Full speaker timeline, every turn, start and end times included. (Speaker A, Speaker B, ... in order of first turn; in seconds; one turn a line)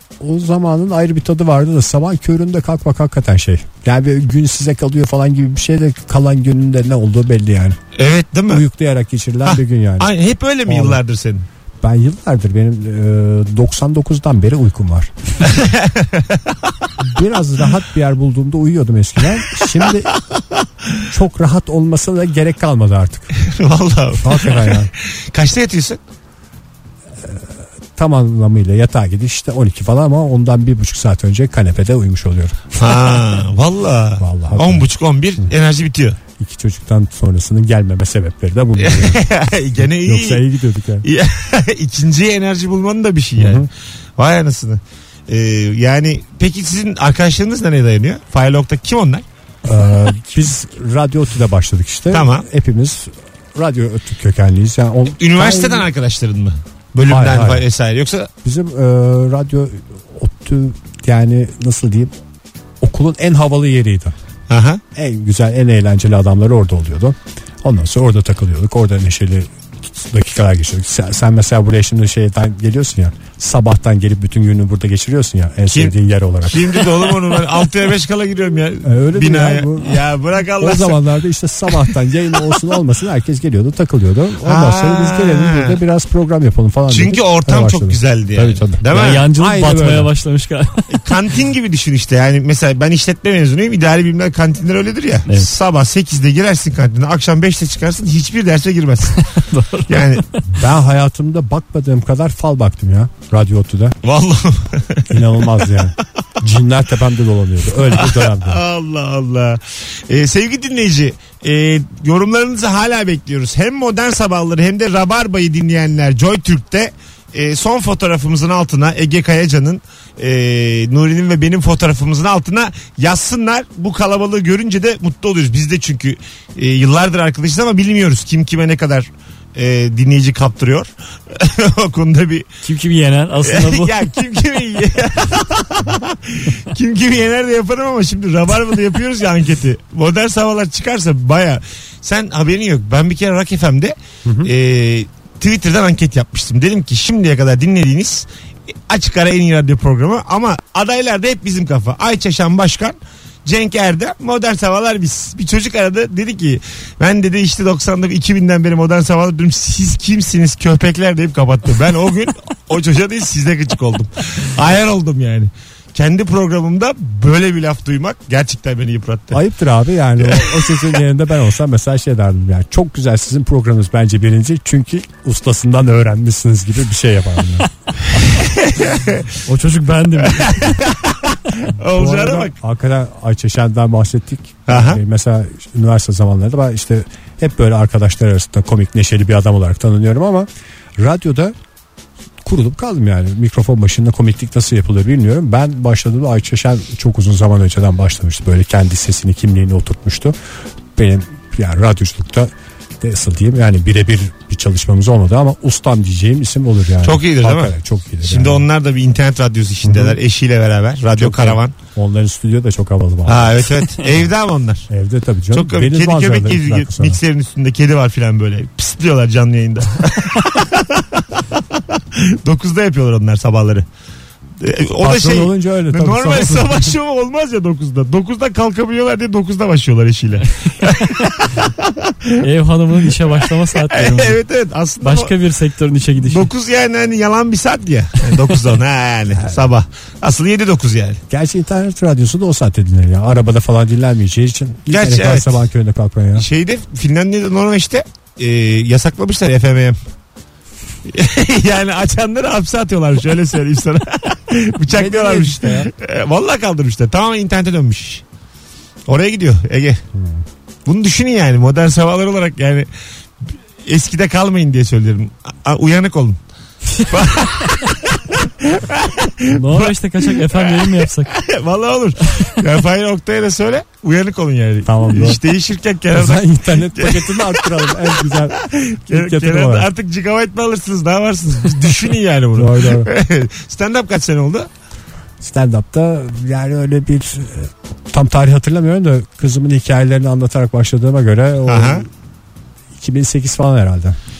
Speaker A: 0.2-7.8
Speaker B: 8.0-8.7
Speaker A: 8.5-10.1
Speaker B: 9.4-11.4
Speaker A: 10.7-11.0
Speaker A: 11.8-15.1
Speaker B: 15.4-16.4
Speaker A: 17.0-20.1
Speaker A: 21.1-23.3
Speaker B: 23.4-26.0
Speaker A: 24.2-24.9
Speaker A: 27.2-33.2
Speaker B: 32.8-36.2
Speaker A: 34.2-35.5
Speaker A: 36.4-39.3
Speaker B: 38.8-40.5
Speaker A: 39.8-41.1
Speaker B: 41.0-49.2
Speaker A: 43.4-43.7
Speaker A: 49.6-55.9
Speaker B: 52.1-52.5
Speaker B: 55.2-58.3
Speaker A: 57.1-57.7
Speaker A: 58.4-62.1
Speaker A: 62.8-64.1
Speaker B: 64.5-64.8
Speaker A: 64.9-77.1
Speaker B: 75.7-81.0
Speaker A: 78.8-90.1
Speaker B: 84.4-85.8
Speaker B: 86.9-89.2
Speaker C: 88.9-91.2
Speaker B: 90.9-99.2
Speaker C: 99.2-100.2
Speaker B: 99.9-100.2
Speaker A: 100.5-104.0
Speaker B: 104.0-105.6
Speaker A: 105.1-108.6
Speaker B: 107.9-132.5
Speaker C: 132.6-134.0
Speaker B: 133.4-148.3
Speaker A: 144.2-144.5
Speaker B: 148.9-169.4
Speaker A: 169.3-177.7
Speaker B: 170.2-171.0
Speaker B: 178.3-179.4
Speaker C: 179.4-180.8
Speaker B: 180.3-182.6
Speaker A: 181.8-191.5
Speaker B: 184.7-185.0
Speaker A: 192.4-200.3
Speaker A: 200.9-208.7
Speaker B: 207.0-211.7
Speaker A: 209.8-210.2
Speaker A: 211.2-213.7
Speaker B: 213.3-214.9
Speaker A: 214.9-217.2
Speaker B: 215.5-221.2
Speaker B: 221.8-223.8
Speaker B: 224.6-232.4
Speaker A: 225.0-226.9
Speaker C: 232.4-234.4
Speaker B: 233.8-235.3
Speaker C: 235.0-236.5
Speaker B: 236.2-241.2
Speaker A: 239.3-239.7
Speaker A: 241.3-246.4
Speaker B: 244.9-245.7
Speaker B: 246.3-250.0
Speaker B: 251.1-258.2
Speaker A: 254.9-255.9
Speaker B: 259.1-260.0
Speaker A: 260.1-260.4
Speaker B: 260.9-262.9
Speaker B: 263.8-266.4
Speaker B: 267.0-284.7
Speaker C: 269.5-271.4
Speaker A: 274.8-275.4
Speaker A: 276.1-278.6
Speaker A: 279.1-279.9
Speaker A: 282.6-283.1
Speaker A: 285.4-292.1
Speaker B: 291.7-292.1
Speaker A: 293.0-294.2